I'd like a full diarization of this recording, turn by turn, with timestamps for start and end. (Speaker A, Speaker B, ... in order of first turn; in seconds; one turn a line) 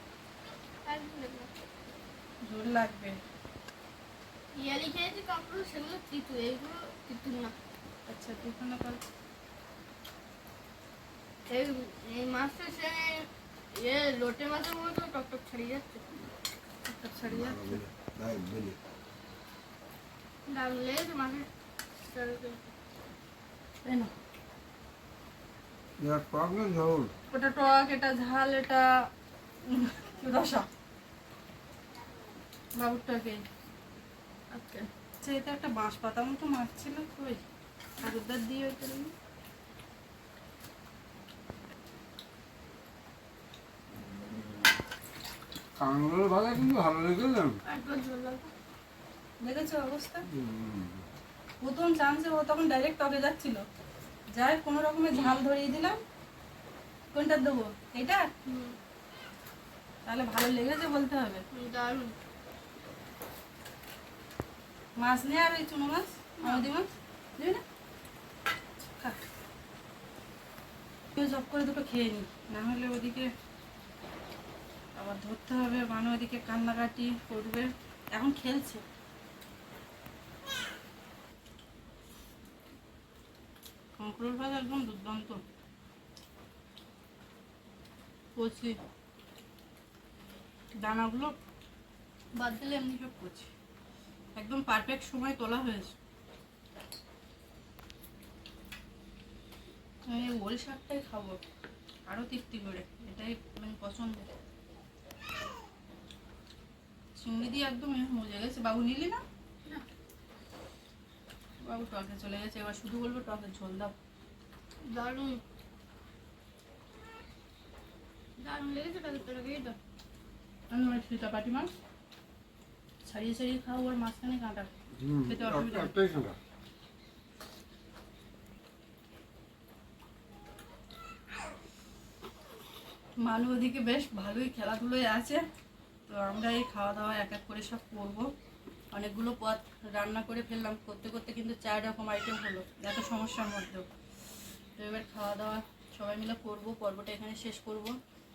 Speaker A: 0.8-1.5
Speaker B: 2.4-3.2
Speaker A: 4.5-7.5
Speaker B: 8.1-9.0
Speaker A: 11.5-16.2
Speaker B: 16.9-17.8
Speaker C: 17.2-18.8
Speaker A: 20.5-22.7
Speaker B: 23.9-24.1
Speaker C: 26.0-27.1
Speaker B: 27.3-29.0
Speaker B: 29.6-30.7
Speaker B: 32.8-33.4
Speaker B: 34.5-37.4
Speaker B: 38.0-39.1
Speaker C: 45.8-47.6
Speaker A: 47.6-48.5
Speaker B: 49.4-50.3
Speaker C: 50.3-51.0
Speaker B: 51.6-53.6
Speaker B: 54.3-56.0
Speaker B: 57.1-58.3
Speaker A: 58.4-58.8
Speaker B: 60.1-61.4
Speaker A: 61.5-62.1
Speaker B: 65.0-67.6
Speaker A: 66.4-66.7
Speaker B: 68.8-69.2
Speaker B: 71.1-73.3
Speaker B: 75.0-78.8
Speaker B: 84.0-85.4
Speaker B: 88.4-88.8
Speaker B: 90.8-91.4
Speaker B: 92.4-93.5
Speaker B: 94.4-96.0
Speaker B: 100.1-101.4
Speaker B: 102.1-104.3
Speaker B: 107.2-109.2
Speaker B: 111.6-113.9
Speaker A: 114.8-115.4
Speaker A: 118.4-119.8
Speaker B: 120.7-121.7
Speaker B: 123.0-124.7
Speaker C: 124.9-126.4
Speaker B: 125.3-125.9
Speaker B: 133.2-135.4
Speaker B: 136.1-138.3
Speaker B: 138.9-143.9
Speaker B: 144.8-147.9